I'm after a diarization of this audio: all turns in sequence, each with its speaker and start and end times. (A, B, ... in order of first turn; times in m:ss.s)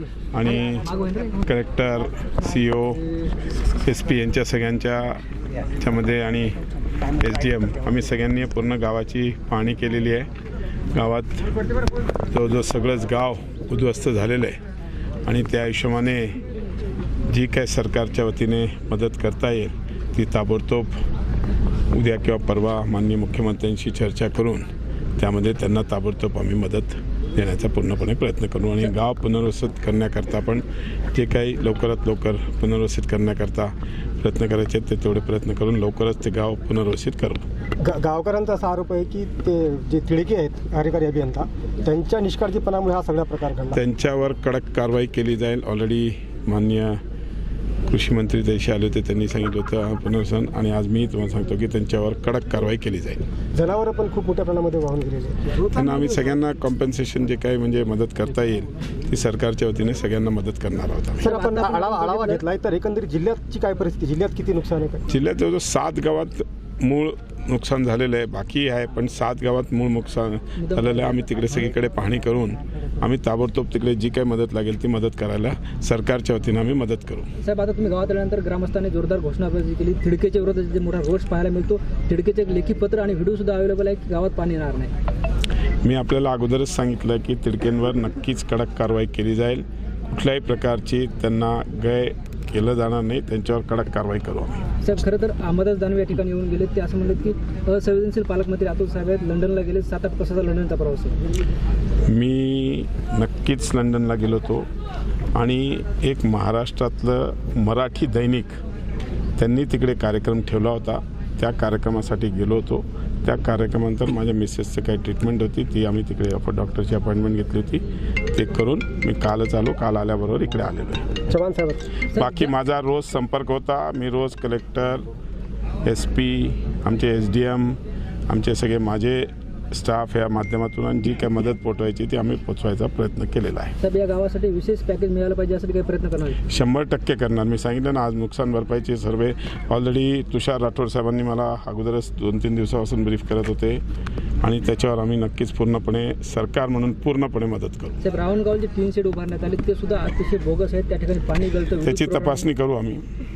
0:00.3-0:03.0 A
0:03.7-0:05.2 A
0:05.8-0:10.3 A
0:10.9-0:11.5 A
0:12.3-0:14.6 A
0:15.2-0:16.4 A
0:17.3-0:20.9 A
0:21.9-0:37.4 A
0:37.8-0:43.8 B
0:43.7-0:47.0 A
0:47.8-0:53.2 A
0:53.5-0:55.5 B
0:55.6-1:01.3 A
1:01.2-1:05.0 B
1:01.2-1:02.4 C
1:05.1-1:17.3 A
1:10.6-1:11.1 C
1:17.4-1:24.9 C
1:25.8-1:34.6 A
1:34.8-1:41.2 C
1:42.1-1:44.7 A
1:45.3-1:48.6 A
1:49.4-2:01.2 A
2:01.3-2:01.8 B
2:02.1-2:05.1 A
2:02.1-2:02.5 C
2:05.8-2:13.7 A
2:13.8-2:16.4 C
2:16.4-2:23.8 A
2:24.4-2:28.0 A
2:28.0-2:32.5 C
2:31.8-2:33.0 A